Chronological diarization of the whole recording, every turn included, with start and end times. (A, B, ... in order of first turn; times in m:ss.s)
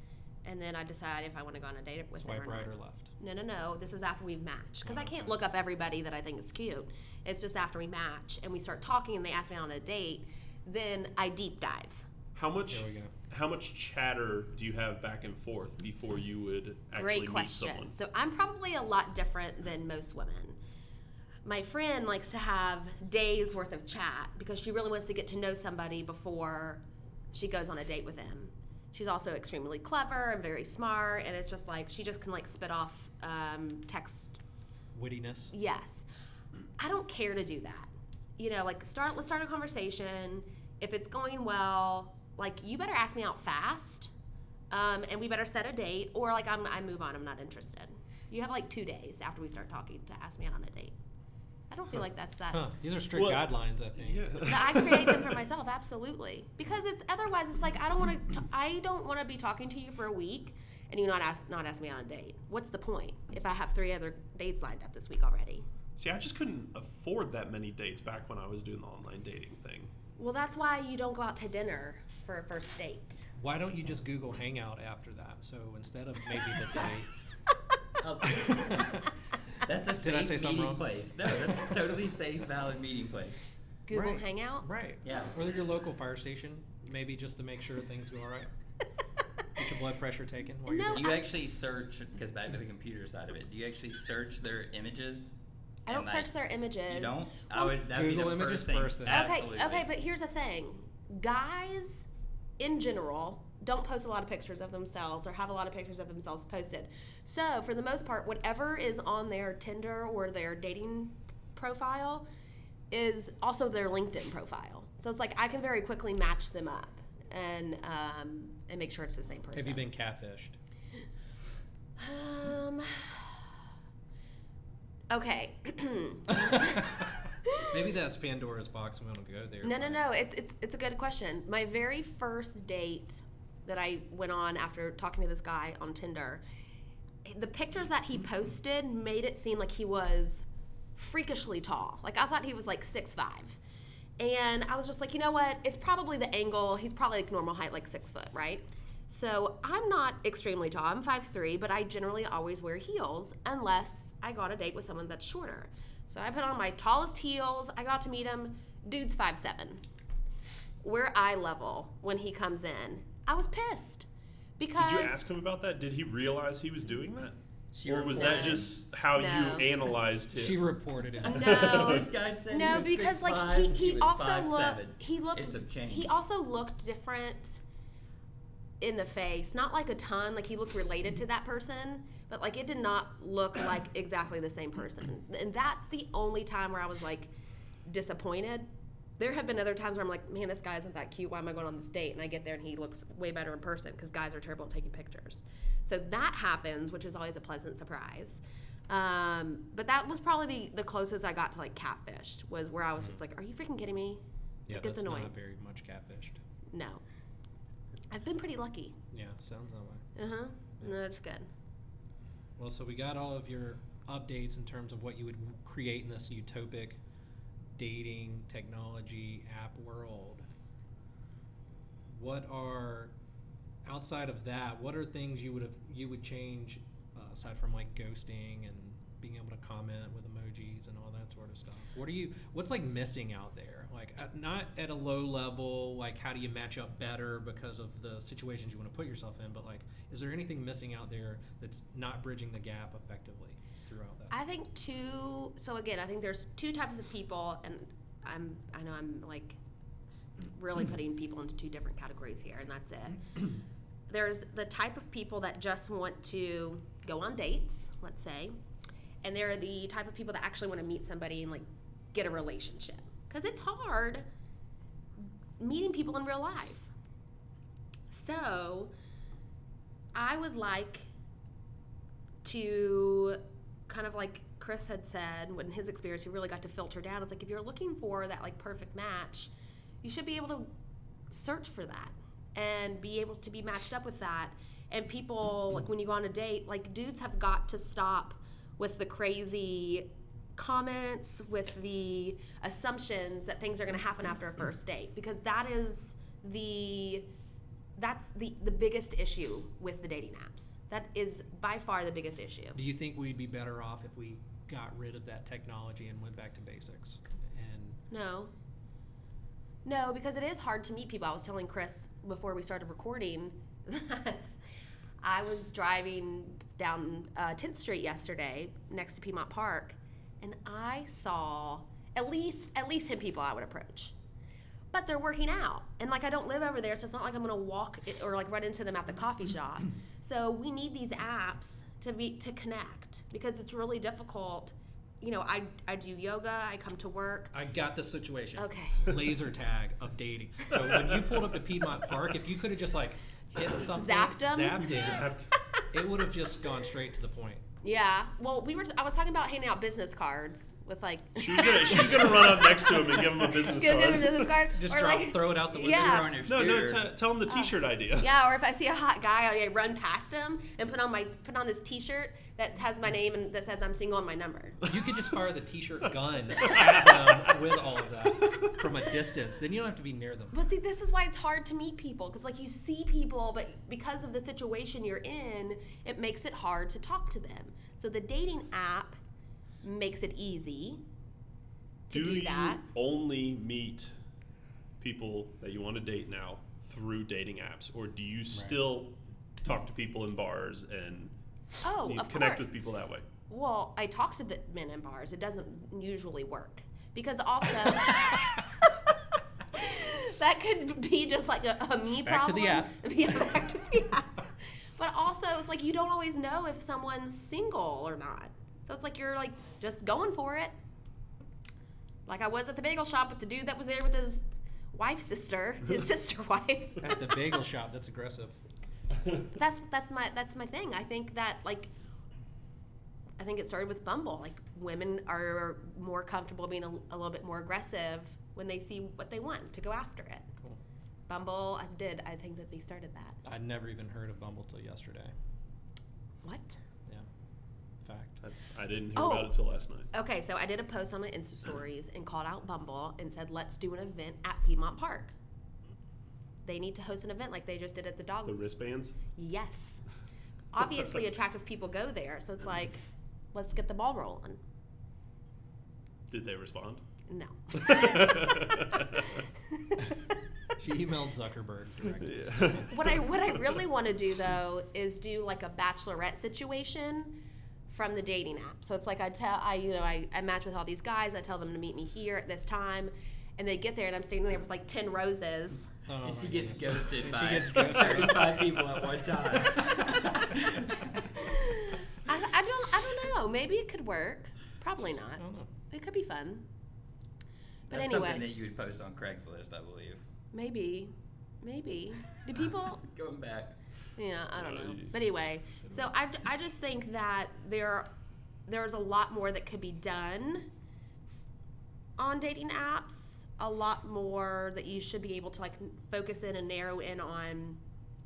0:00.4-0:12.1 A
0:02.2-0:03.1 B
0:04.8-0:05.4 B
0:12.3-0:17.9 C
0:12.7-0:13.1 B
0:17.0-0:20.6 A
0:21.4-0:34.4 A
0:34.9-0:35.5 B
0:35.5-0:36.0 A
0:36.8-0:44.1 A
0:44.7-0:50.9 A
0:51.7-0:52.6 A
0:52.5-0:54.4 B
0:53.1-0:55.4 C
0:54.4-1:05.6 A
1:06.0-1:09.9 C
1:10.2-1:13.3 A
1:13.4-1:17.1 B
1:18.0-1:19.0 D
1:18.5-1:19.1 B
1:19.6-1:23.4 D
1:20.0-1:20.8 B
1:23.9-1:24.7 A
1:23.9-1:28.5 B
1:25.0-1:25.4 D
1:29.6-1:31.1 B
1:30.7-1:31.2 A
1:30.9-1:35.3 D
1:35.9-1:37.7 A
1:35.9-1:36.3 D
1:36.9-1:39.9 D
1:37.8-1:39.3 B
1:39.1-1:42.1 A
1:42.6-1:52.3 A
1:52.9-1:59.9 A
1:59.5-2:00.6 B
2:02.0-2:03.4 A
2:05.1-2:07.7 A
2:06.3-2:10.0 B
2:09.6-2:16.4 A
2:17.2-2:20.4 A
2:21.0-2:23.6 A
2:24.2-2:39.8 A
2:40.8-2:44.1 A
2:44.6-2:45.2 A
2:44.8-2:50.6 C
2:47.7-2:48.7 D
2:48.1-2:49.7 A
2:50.3-2:51.7 B
2:51.2-2:57.6 A
2:51.3-2:52.0 C
2:51.5-2:56.1 D
2:58.8-3:07.3 A
3:07.9-3:08.7 A
3:09.2-3:25.3 A
3:24.7-3:26.4 B
3:26.7-3:27.0 A
3:28.1-3:29.0 A
3:29.1-3:30.0 B
3:30.2-3:31.5 A
3:32.6-3:37.0 B
3:37.8-3:40.5 B
3:42.1-3:43.1 B
3:43.8-4:04.3 B
4:04.3-4:09.6 A
4:10.5-4:13.2 A
4:14.1-4:18.6 A
4:19.2-4:24.3 A
4:25.6-4:26.9 A
4:28.1-4:28.9 A
4:30.1-4:31.1 A
4:32.4-4:39.5 A
4:40.0-4:40.7 A
4:41.3-4:57.3 A
4:58.0-5:02.8 A
5:02.8-5:08.0 B
5:08.1-5:08.5 A
5:09.8-5:14.5 A
5:15.2-5:24.1 A
5:24.9-5:37.5 A
5:37.5-5:45.3 B
5:38.6-5:39.3 A
5:43.8-5:44.9 A
5:44.9-5:45.5 C
5:45.9-5:47.6 B
5:47.8-5:56.4 A
5:51.4-5:54.6 C
5:54.8-5:56.3 B
5:55.8-5:57.1 D
5:56.4-5:58.3 C
5:57.5-6:04.8 A
6:04.9-6:10.6 B
6:06.7-6:07.5 C
6:10.5-6:19.2 A
6:19.8-6:21.0 A
6:22.1-6:22.8 A
6:22.1-6:24.1 C
6:25.0-6:31.3 C
6:31.8-6:32.7 A
6:32.0-6:33.3 C
6:33.5-6:39.2 A
6:39.7-6:50.8 A
6:42.2-6:42.9 B
6:52.3-6:57.6 A
6:57.0-6:58.6 B
6:59.5-7:01.9 A
7:03.4-7:10.5 A
7:11.3-7:13.4 A
7:13.4-7:15.3 B
7:16.4-7:16.8 A
7:18.0-7:18.4 B
7:18.4-7:20.1 C
7:19.2-7:19.5 A
7:20.1-7:25.3 A
7:26.6-7:28.6 A
7:28.4-7:29.2 C
7:29.4-7:30.0 A
7:30.7-7:33.0 A
7:33.5-7:34.6 A
7:36.3-7:37.0 C
7:37.3-7:40.3 A
7:37.7-7:39.4 C
7:40.8-7:42.9 B
7:42.2-7:43.2 C
7:42.9-7:47.4 A
7:47.9-7:55.9 A
7:56.1-7:59.0 B
7:56.2-8:01.3 D
8:01.4-8:06.6 A
8:05.4-8:05.7 B
8:07.9-8:10.2 D
8:07.9-8:08.5 A
8:10.5-8:13.1 A
8:13.0-8:13.8 D
8:14.2-8:18.1 A
8:14.6-8:15.1 C
8:18.7-8:20.7 A
8:22.2-8:27.8 A